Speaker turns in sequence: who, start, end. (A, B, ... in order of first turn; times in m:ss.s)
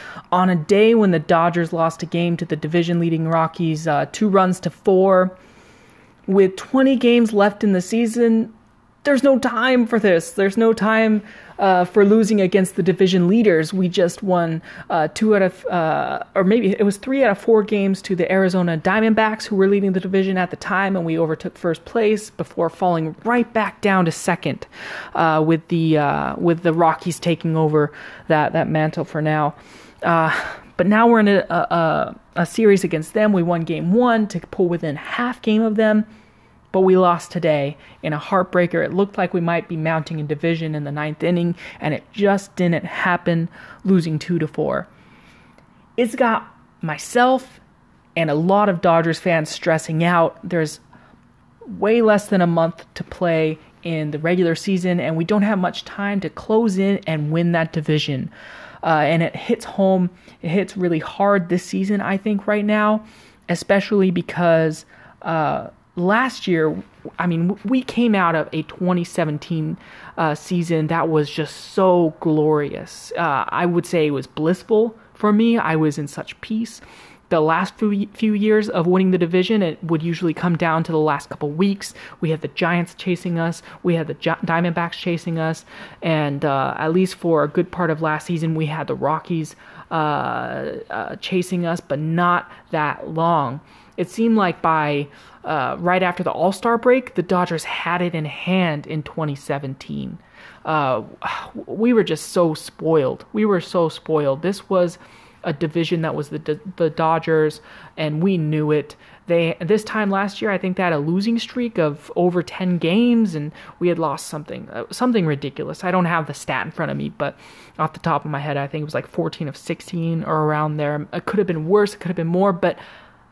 0:00.3-0:05.3 A
0:06.3-0:08.5 A
0:09.0-0:36.0 A
0:36.7-0:44.9 A
0:46.0-0:47.6 A
0:48.2-0:50.8 A
0:51.6-0:58.3 A
0:58.8-2:02.8 A